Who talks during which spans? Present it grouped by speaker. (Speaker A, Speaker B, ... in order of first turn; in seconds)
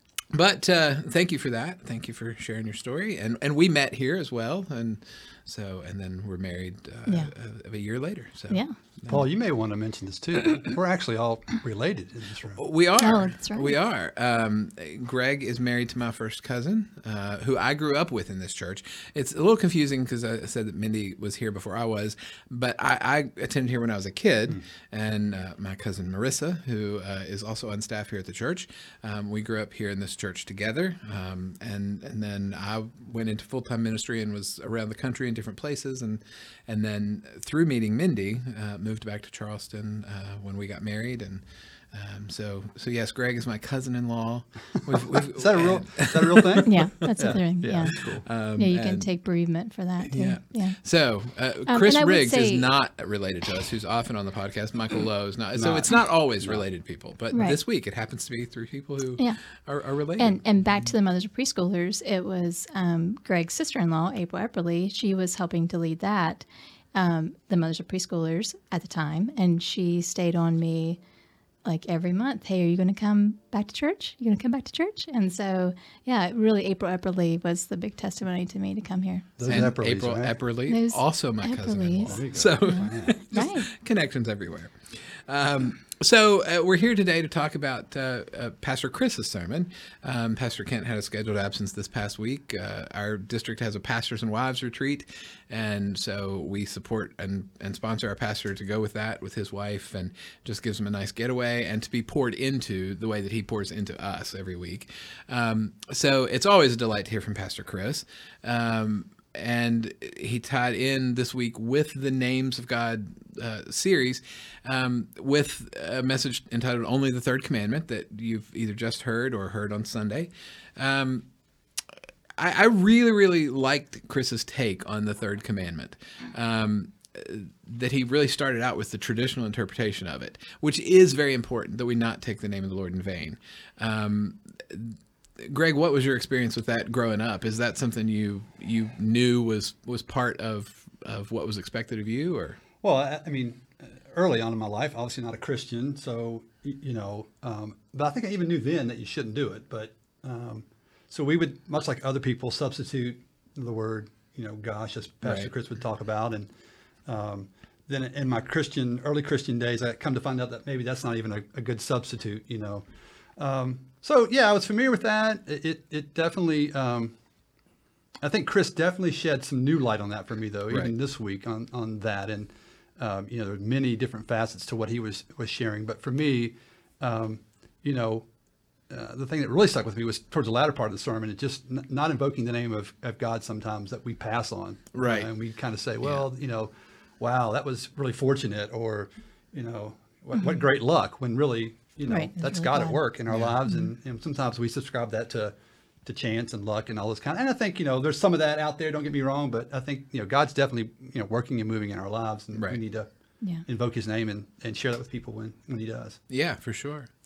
Speaker A: 0.3-9.2, 12.6-46.7, 47.9-49.1, 50.0-60.4, 79.4-121.3, 122.4-142.6, 155.2-155.5, 184.9-185.3, 186.0-186.3, 193.3-193.6, 202.5-202.8, 206.3-207.1
Speaker B: 9.1-12.6, 44.9-48.2, 55.5-56.6, 79.4-80.4, 82.0-83.2, 142.8-156.5, 157.1-162.8, 163.4-167.1, 168.2-178.3, 178.9-195.5, 196.0-203.1, 203.7-206.2
Speaker C: 13.0-13.8, 46.6-50.8, 51.7-52.6, 57.3-57.6, 60.2-71.0, 71.6-79.7, 80.7-83.7, 190.3-190.7, 192.1-193.0